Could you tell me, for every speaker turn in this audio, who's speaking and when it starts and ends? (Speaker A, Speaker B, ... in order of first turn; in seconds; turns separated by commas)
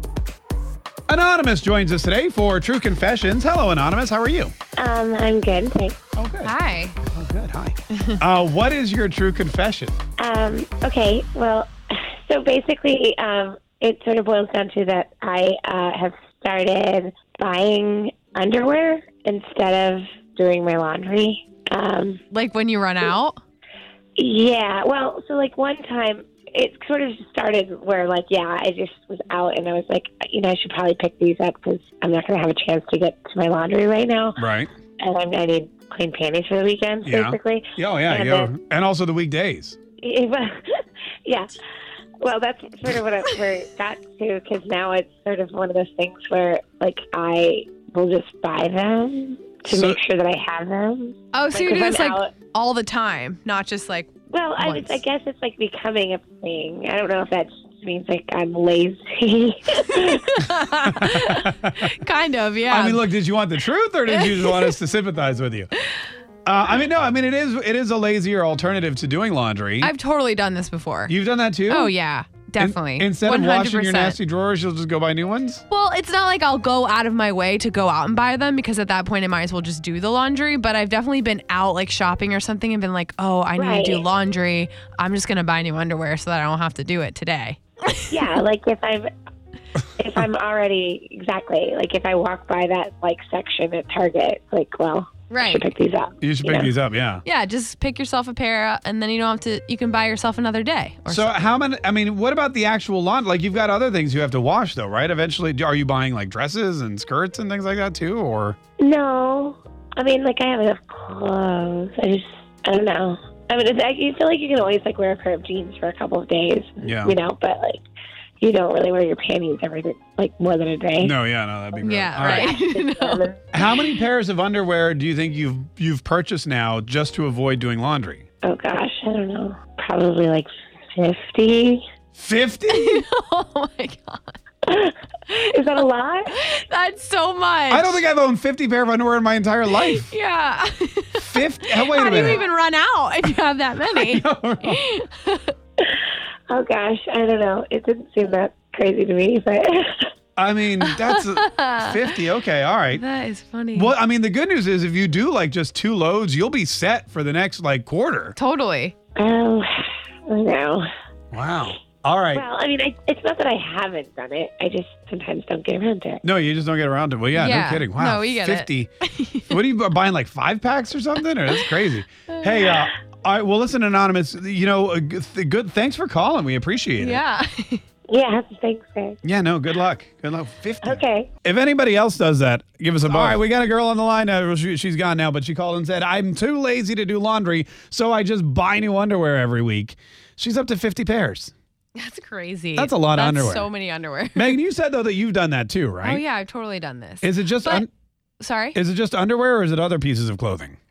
Speaker A: 1.1-4.5, Speaker B: 4.8-6.0, Speaker A: 6.2-6.5, Speaker C: 6.4-7.0, Speaker A: 7.1-9.9, Speaker B: 10.2-22.2, Speaker C: 22.3-23.4, Speaker B: 24.2-34.4, Speaker A: 34.4-34.7, Speaker B: 35.0-38.5, Speaker A: 37.0-39.8, Speaker B: 40.0-40.7, Speaker B: 41.3-41.5, Speaker B: 42.2-52.3, Speaker A: 49.7-50.0, Speaker C: 51.3-55.0, Speaker B: 54.3-60.2, Speaker C: 60.3-63.1, Speaker A: 60.8-61.9, Speaker A: 62.7-65.7, Speaker C: 64.1-64.7, Speaker A: 66.5-69.9, Speaker C: 69.8-71.2, Speaker A: 71.1-71.9, Speaker C: 71.7-74.2, Speaker A: 72.6-75.6, Speaker C: 75.7-88.0, Speaker B: 83.6-84.0, Speaker B: 88.1-89.1, Speaker B: 90.0-96.7, Speaker C: 95.3-95.7, Speaker A: 96.2-97.2, Speaker C: 97.2-101.5, Speaker A: 101.1-108.6, Speaker B: 108.8-117.8, Speaker A: 116.8-117.2, Speaker B: 118.4-121.1, Speaker A: 121.0-122.5, Speaker C: 121.8-123.3, Speaker B: 122.4-123.2, Speaker A: 123.5-128.2, Speaker B: 128.4-131.8, Speaker A: 132.2-133.0, Speaker C: 132.7-134.3, Speaker B: 134.7-136.3, Speaker C: 136.3-138.0, Speaker A: 137.7-140.1, Speaker C: 139.7-141.2, Speaker A: 141.2-142.4, Speaker C: 141.8-145.5, Speaker B: 142.1-142.4, Speaker A: 143.8-144.8, Speaker B: 145.8-150.1, Speaker A: 150.4-153.0, Speaker C: 150.9-151.9, Speaker C: 152.9-153.9, Speaker A: 153.7-158.4, Speaker C: 158.4-158.9, Speaker B: 159.2-159.7, Speaker B: 160.3-160.9, Speaker A: 161.3-162.4, Speaker B: 162.3-166.2, Speaker A: 166.2-168.9, Speaker C: 167.4-169.5, Speaker A: 169.5-177.2, Speaker C: 177.0-177.8, Speaker B: 178.1-179.2, Speaker A: 179.2-191.5, Speaker B: 180.8-181.3, Speaker C: 192.0-194.6, Speaker A: 192.8-193.7, Speaker A: 194.3-196.2, Speaker C: 196.0-197.9, Speaker A: 197.2-197.9, Speaker C: 198.4-198.8, Speaker A: 198.7-200.8